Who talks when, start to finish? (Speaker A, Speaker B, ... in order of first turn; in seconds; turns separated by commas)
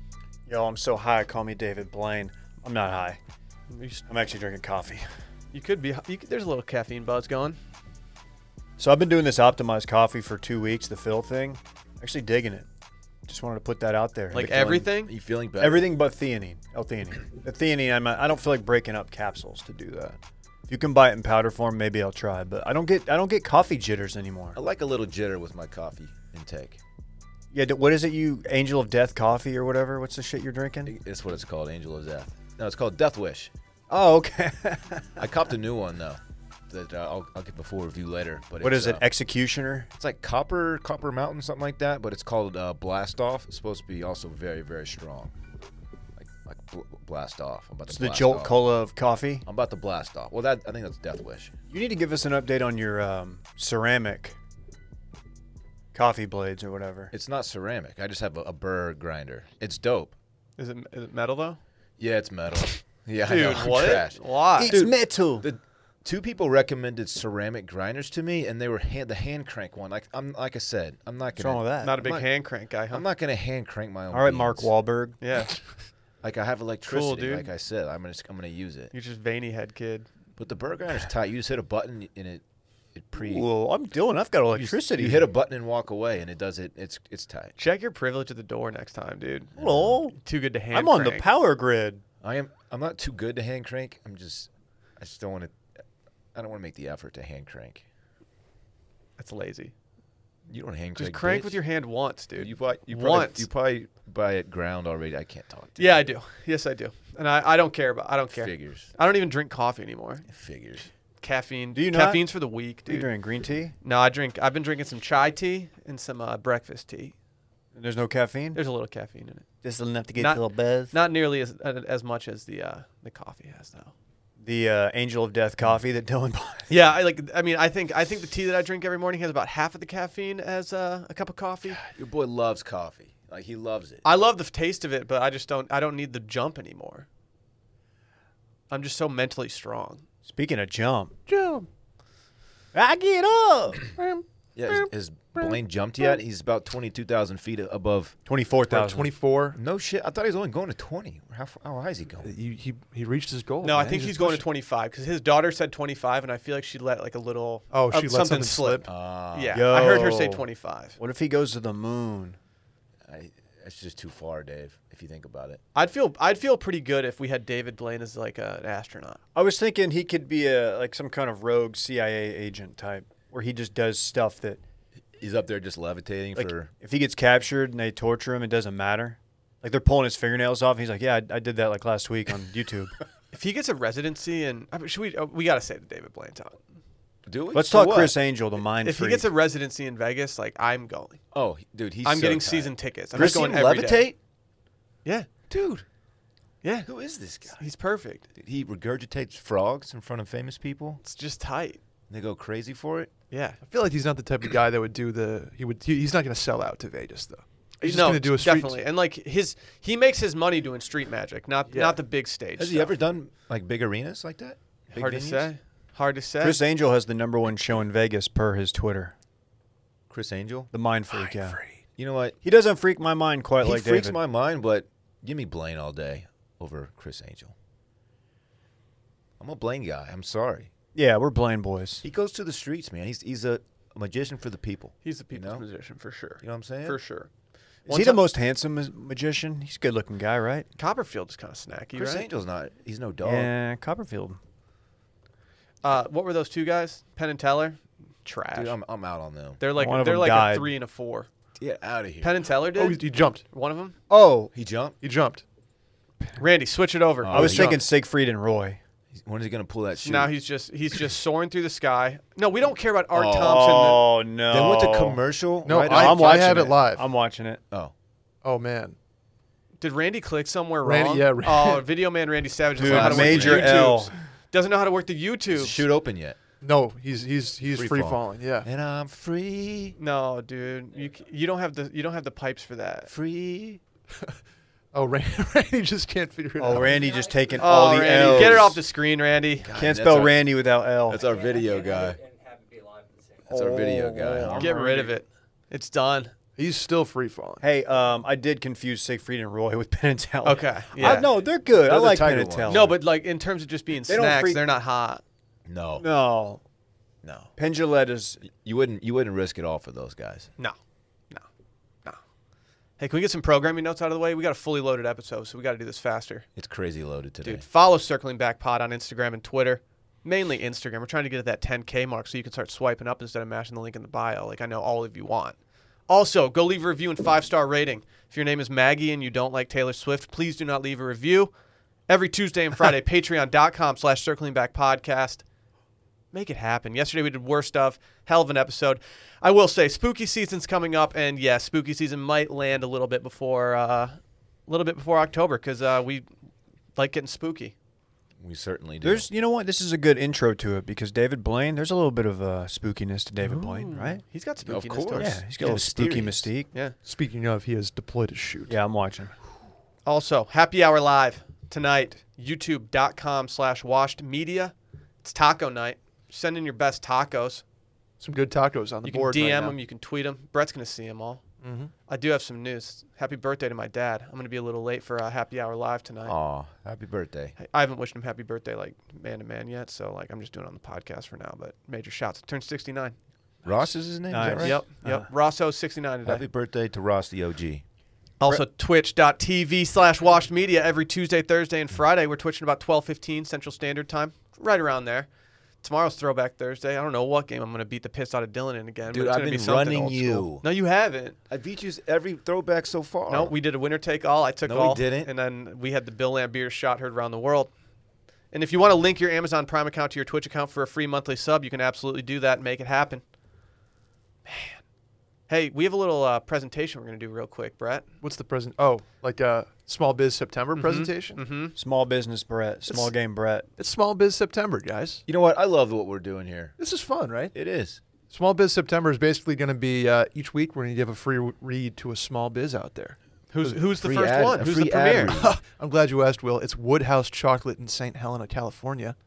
Speaker A: 0.5-3.2, Speaker B: 3.7-4.1, Speaker A: 4.1-5.1, Speaker B: 5.5-7.6, Speaker A: 8.8-12.7, Speaker A: 13.2-14.9, Speaker B: 14.3-15.1, Speaker C: 14.3-15.9, Speaker A: 15.6-24.6, Speaker C: 24.5-26.8, Speaker A: 27.5-30.9, Speaker C: 30.8-33.5, Speaker A: 33.9-35.3, Speaker C: 35.2-39.0, Speaker A: 38.6-39.9, Speaker C: 40.0-45.3, Speaker C: 46.1-48.6, Speaker A: 47.9-49.5, Speaker C: 49.4-51.5, Speaker A: 51.7-54.4, Speaker A: 55.9-57.1, Speaker C: 57.1-60.1, Speaker B: 60.6-61.6, Speaker C: 62.0-72.3, Speaker B: 63.2-64.8, Speaker A: 64.6-65.5, Speaker A: 71.3-71.9, Speaker B: 71.8-73.0, Speaker C: 72.9-74.7, Speaker A: 74.1-75.2, Speaker B: 75.2-75.6, Speaker C: 76.2-78.9, Speaker B: 76.8-77.5, Speaker B: 78.9-80.1, Speaker C: 80.4-82.4, Speaker C: 82.9-83.5, Speaker A: 83.2-85.3, Speaker C: 84.5-87.5, Speaker B: 87.6-91.2, Speaker C: 89.5-90.0, Speaker A: 89.6-90.2, Speaker A: 90.7-92.0, Speaker C: 92.2-95.5, Speaker C: 96.3-97.8, Speaker B: 99.2-99.7, Speaker C: 100.5-101.6, Speaker B: 101.0-103.5, Speaker C: 102.4-106.0, Speaker B: 105.8-110.3, Speaker C: 108.3-108.9, Speaker C: 110.3-110.9, Speaker B: 111.2-113.1, Speaker A: 111.7-112.2, Speaker A: 112.9-113.7, Speaker B: 113.8-117.1, Speaker A: 117.7-118.6, Speaker B: 118.5-119.4, Speaker A: 119.6-120.9, Speaker B: 120.2-123.9, Speaker A: 124.4-126.7, Speaker B: 126.7-131.8, Speaker C: 131.9-134.0, Speaker B: 134.0-137.1, Speaker B: 138.7-140.0, Speaker A: 140.2-141.2, Speaker D: 141.3-141.7, Speaker A: 142.7-143.9, Speaker D: 144.0-145.5, Speaker C: 144.5-148.1, Speaker A: 148.2-149.1, Speaker D: 148.7-149.6, Speaker C: 149.5-152.3, Speaker D: 152.2-154.4, Speaker B: 153.6-160.9, Speaker D: 157.7-158.9, Speaker C: 158.8-159.7, Speaker A: 159.5-160.4, Speaker A: 161.0-162.4, Speaker C: 163.1-165.6, Speaker B: 165.7-169.2, Speaker A: 169.3-174.6, Speaker C: 175.2-176.7, Speaker A: 176.3-183.0, Speaker B: 183.3-186.6, Speaker C: 187.2-188.1, Speaker A: 187.5-189.3, Speaker B: 188.8-191.2, Speaker C: 191.3-194.2, Speaker B: 192.0-194.1, Speaker C: 195.5-195.8, Speaker B: 196.6-196.9, Speaker C: 196.8-197.6, Speaker B: 197.6-198.2, Speaker C: 198.3-201.0, Speaker B: 201.0-201.8, Speaker C: 202.1-203.1, Speaker B: 203.3-203.6, Speaker D: 203.7-208.8, Speaker B: 207.8-212.9, Speaker D: 211.7-212.0, Speaker C: 212.6-215.5, Speaker B: 214.9-216.6, Speaker A: 216.4-219.1, Speaker C: 220.1-220.7, Speaker A: 220.7-221.6, Speaker D: 221.1-221.8, Speaker C: 222.0-222.4, Speaker A: 222.4-224.2, Speaker C: 223.6-227.5, Speaker C: 229.4-230.7, Speaker A: 230.9-232.0, Speaker C: 232.0-235.6, Speaker B: 235.0-237.3, Speaker C: 236.4-237.0, Speaker A: 237.9-240.7, Speaker B: 237.9-238.2, Speaker B: 240.8-242.3, Speaker C: 241.9-243.5, Speaker A: 243.2-244.4, Speaker B: 245.8-248.8, Speaker C: 248.5-249.6, Speaker B: 249.6-251.3, Speaker A: 249.7-250.7, Speaker C: 251.6-252.3, Speaker B: 252.2-253.9, Speaker D: 252.7-253.4, Speaker A: 254.1-254.5, Speaker C: 254.5-255.0, Speaker D: 255.0-255.4, Speaker B: 256.4-257.8, Speaker C: 257.2-257.8, Speaker A: 257.3-258.8, Speaker C: 259.1-260.3, Speaker B: 259.9-264.1, Speaker C: 263.1-263.8, Speaker A: 263.4-265.2, Speaker C: 264.5-266.7, Speaker D: 265.6-267.0, Speaker A: 265.8-267.6, Speaker D: 268.4-268.9, Speaker B: 269.8-275.8, Speaker D: 270.8-271.8, Speaker A: 272.8-274.1, Speaker C: 272.8-273.9, Speaker C: 275.5-276.4, Speaker D: 276.6-278.7, Speaker C: 277.7-280.0, Speaker B: 280.0-283.1, Speaker C: 283.1-283.8, Speaker D: 284.9-287.1, Speaker A: 286.6-288.8, Speaker E: 286.8-287.7, Speaker B: 287.6-289.7, Speaker C: 288.1-288.8, Speaker C: 289.6-290.4, Speaker A: 289.7-291.2, Speaker C: 291.1-292.2, Speaker E: 291.1-293.6, Speaker C: 293.5-294.7, Speaker A: 293.5-295.1, Speaker B: 294.5-296.3, Speaker D: 296.6-297.6, Speaker A: 297.6-302.9, Speaker B: 300.4-301.3, Speaker C: 301.0-303.0, Speaker B: 302.7-305.2, Speaker A: 304.1-304.6, Speaker C: 305.7-306.1, Speaker A: 306.0-306.6, Speaker C: 307.2-307.5, Speaker A: 307.6-308.4, Speaker C: 308.5-310.5, Speaker B: 313.0-316.5, Speaker C: 316.5-317.6, Speaker B: 317.4-325.6, Speaker B: 326.1-331.5, Speaker B: 332.1-335.4, Speaker B: 336.3-346.3, Speaker B: 346.9-347.7, Speaker C: 348.4-349.3, Speaker A: 349.0-354.2, Speaker D: 353.4-354.1, Speaker B: 354.1-355.8, Speaker C: 354.6-356.5, Speaker A: 355.2-356.7, Speaker D: 357.0-358.8, Speaker A: 358.7-359.3, Speaker B: 360.0-367.6, Speaker D: 368.2-369.8, Speaker B: 369.0-371.4, Speaker D: 371.6-371.9, Speaker B: 372.1-376.4, Speaker C: 376.2-377.5, Speaker B: 377.6-383.1, Speaker C: 383.6-384.8, Speaker A: 384.3-385.3, Speaker B: 384.6-386.4, Speaker C: 386.2-387.8, Speaker B: 388.4-395.3, Speaker B: 395.8-401.4, Speaker C: 399.1-400.6, Speaker C: 401.5-403.5, Speaker B: 403.3-407.7, Speaker C: 404.6-405.3, Speaker B: 408.5-413.2, Speaker B: 414.4-414.8, Speaker B: 415.5-418.1, Speaker D: 418.2-421.4, Speaker B: 420.7-421.8, Speaker A: 421.7-423.7, Speaker D: 422.9-423.1, Speaker D: 423.8-425.2, Speaker C: 425.3-426.8, Speaker D: 426.8-427.5, Speaker C: 427.5-428.0, Speaker D: 428.3-433.8, Speaker B: 433.5-435.4, Speaker C: 434.0-435.5, Speaker D: 435.4-439.1